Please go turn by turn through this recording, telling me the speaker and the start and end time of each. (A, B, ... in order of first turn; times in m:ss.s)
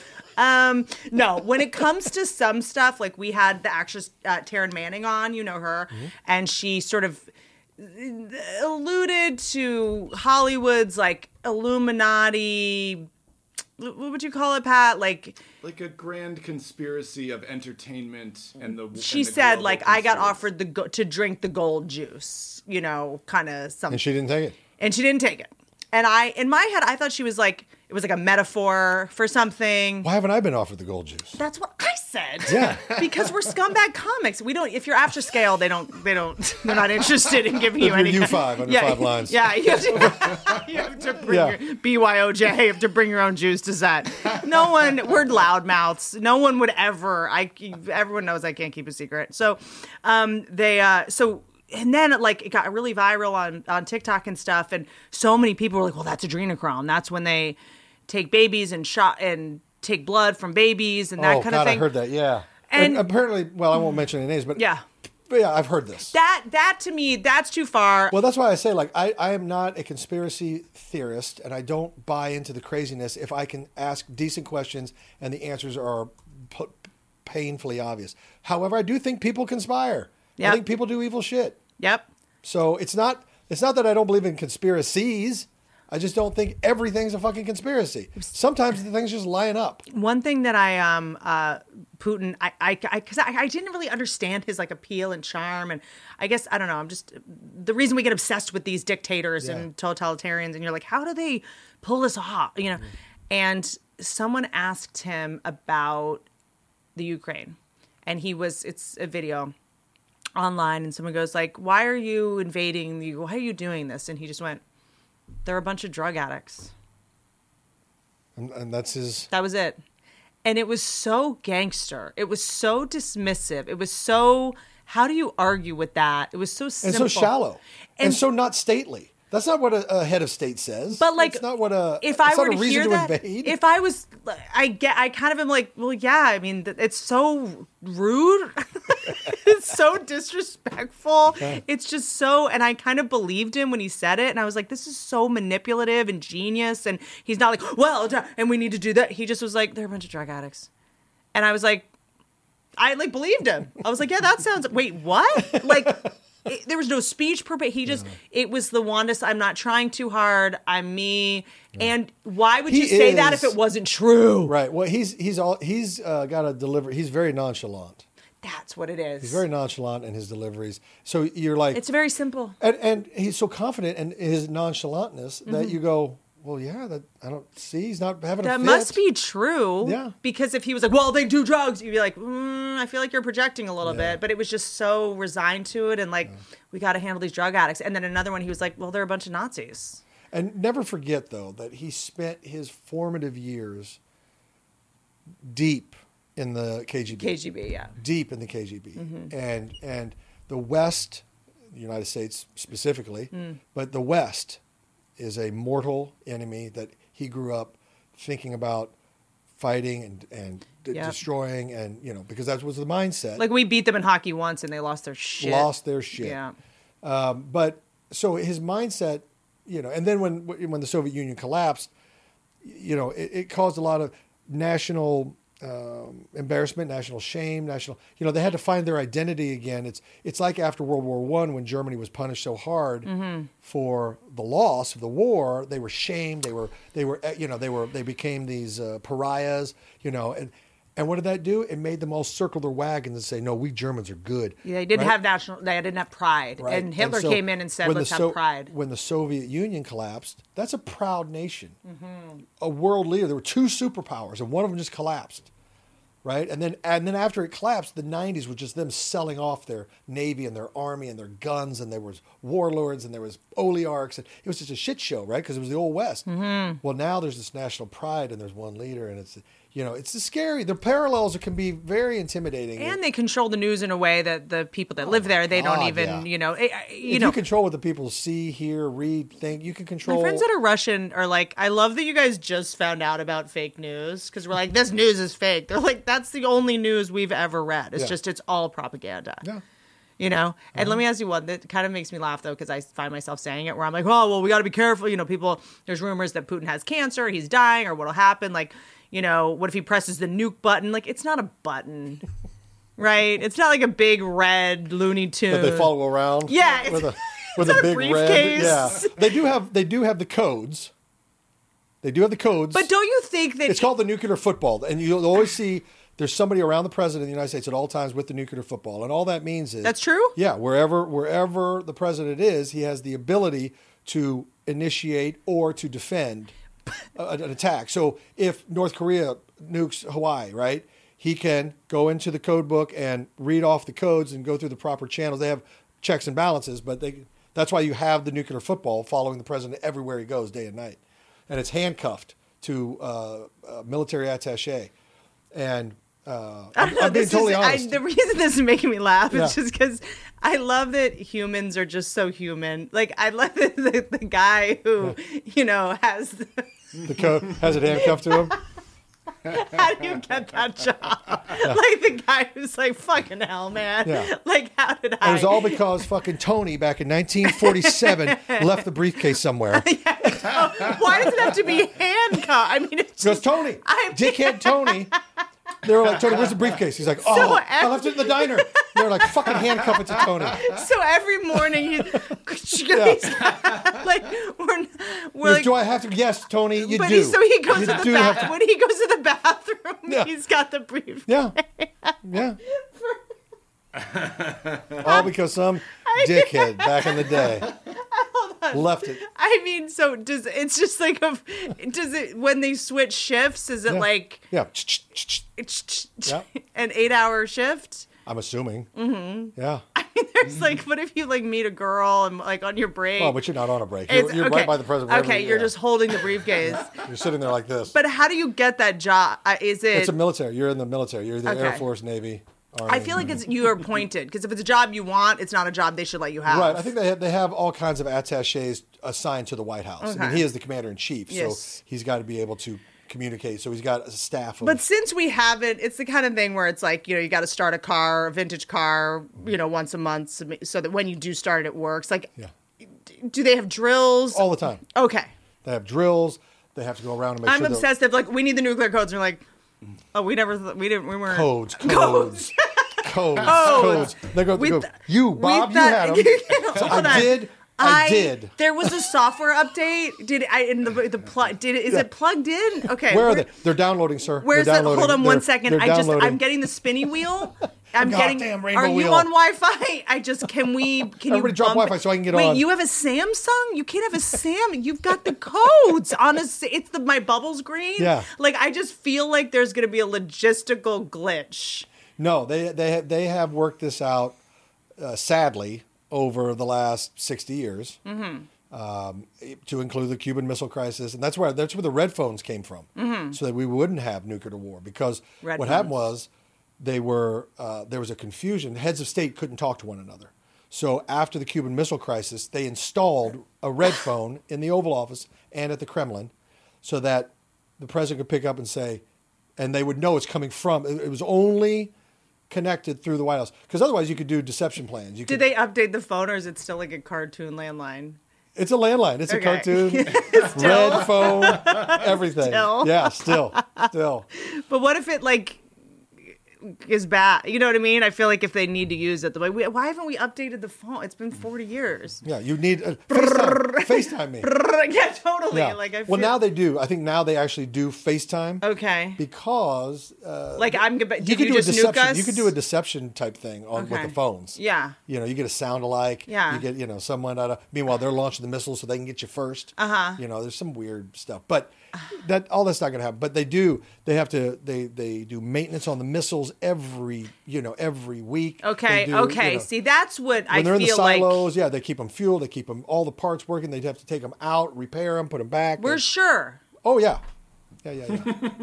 0:00.4-0:13.1 A
0:13.8-0:15.4 A
0:15.6-0:20.4 B
0:18.9-0:24.0 A
0:23.9-0:24.6 C
0:24.8-0:30.1 A
0:30.0-0:31.4 C
0:31.4-1:01.9 A
0:32.5-0:33.0 C
0:37.8-0:40.6 C
0:41.2-0:41.6 C
1:01.2-1:04.6 C
1:02.7-1:03.0 A
1:04.6-1:04.8 A
1:05.3-1:06.1 C
1:06.1-1:08.2 A
1:08.1-1:21.6 C
1:20.4-1:20.6 A
1:21.8-1:22.1 A
1:22.4-1:29.8 C
1:29.9-1:46.2 A
1:39.4-1:39.7 C
1:47.0-1:49.5 A
1:50.4-1:54.6 A
1:55.4-1:56.7 A
1:58.4-1:59.3 C
1:59.3-1:59.8 A
2:00.4-2:07.3 A
2:06.8-2:13.6 C
2:11.0-2:11.4 A
2:12.0-2:30.7 A
2:31.3-2:31.9 A
2:32.8-2:44.5 A
2:35.5-2:36.1 C
2:42.7-2:43.6 C
2:44.4-2:48.0 C
2:48.4-2:49.4 A
2:49.2-2:51.8 C
2:51.7-2:52.6 A
2:52.6-2:59.0 C
2:55.4-2:55.8 A
2:58.4-3:10.0 A
2:59.8-3:00.1 C
3:03.8-3:04.2 C
3:10.3-3:14.0 C
3:15.4-3:17.4 C
3:17.1-3:17.9 A
3:18.0-3:24.6 C
3:19.0-3:19.3 A
3:25.2-3:28.9 C
3:29.6-3:33.4 C
3:33.4-3:36.5 A
3:35.4-3:36.4 C
3:37.0-3:41.9 C
3:42.6-3:53.1 C
3:53.0-3:53.5 A
3:53.6-4:05.2 C
4:04.6-4:08.7 A
4:06.6-4:11.8 C
4:11.9-4:12.4 A
4:12.6-4:15.5 C
4:16.2-4:26.2 C
4:26.3-4:26.8 A
4:26.8-4:33.0 C
4:32.8-4:37.4 A
4:35.0-4:36.3 C
4:37.0-4:40.4 C
4:40.0-4:49.4 A
4:50.2-5:02.2 A
4:50.7-4:51.0 C
5:03.0-5:05.9 A
5:05.5-5:10.9 C
5:06.4-5:09.3 A
5:12.0-5:12.9 C
5:12.7-5:13.9 A
5:13.6-5:26.5 C
5:19.8-5:20.3 A
5:27.2-5:44.9 C
5:45.5-5:48.0 C
5:46.8-5:57.0 A
5:49.3-5:49.6 C
5:57.0-5:58.6 C
5:57.9-5:58.6 A
5:59.4-6:06.0 A
6:04.0-6:04.3 C
6:05.2-6:09.9 C
6:07.4-6:08.8 A
6:09.7-6:15.2 A
6:13.2-6:15.1 C
6:15.8-6:20.8 C
6:17.2-6:25.7 A
6:22.9-6:23.4 C
6:25.4-6:28.5 C
6:26.8-6:33.2 A
6:31.3-6:31.6 C
6:32.2-6:32.6 C
6:35.0-6:37.7 C
6:35.0-6:35.3 A
6:36.0-6:44.4 A
6:38.7-6:39.2 C
6:43.9-6:45.5 C
6:45.6-6:48.1 A
6:48.2-6:48.9 C
6:48.9-6:53.4 A
6:49.5-6:49.8 C
6:53.2-6:55.7 C
6:54.1-6:57.0 A
6:56.7-6:57.9 C
6:57.9-7:00.1 A
6:59.9-7:03.4 C
7:01.4-7:01.9 A
7:02.9-7:06.9 A
7:06.4-7:14.8 C
7:10.0-7:10.4 A
7:11.3-7:11.7 A
7:14.6-7:22.3 A
7:22.9-7:25.3 A
7:24.3-7:24.8 C
7:25.6-7:27.9 C
7:27.4-7:29.4 A
7:30.1-7:43.6 A
7:31.3-7:39.0 C
7:42.8-7:46.4 C
7:44.4-8:01.9 A
7:48.0-7:49.3 C
7:51.2-7:52.6 C
7:58.0-7:58.3 C
8:02.2-8:04.4 C
8:05.0-8:08.0 C
8:08.0-8:08.5 A
8:08.7-8:26.3 C
8:13.0-8:13.4 A
8:15.4-8:15.9 A
8:26.8-8:29.0 C
8:29.6-8:31.9 C
8:32.5-8:35.4 C
8:35.3-8:38.2 A
8:38.5-8:44.3 C
8:39.3-8:45.6 A
8:46.3-8:52.2 A
8:52.2-8:54.5 C
8:53.1-8:56.3 A
8:55.5-8:58.6 C
8:58.6-8:59.2 A
8:59.2-9:19.7 C
9:00.6-9:02.5 A
9:03.7-9:05.0 A
9:06.3-9:06.6 A
9:09.8-9:10.2 A
9:18.6-9:21.5 A
9:20.5-9:26.0 C
9:25.8-9:26.6 A
9:26.8-9:27.2 C
9:27.8-9:28.5 C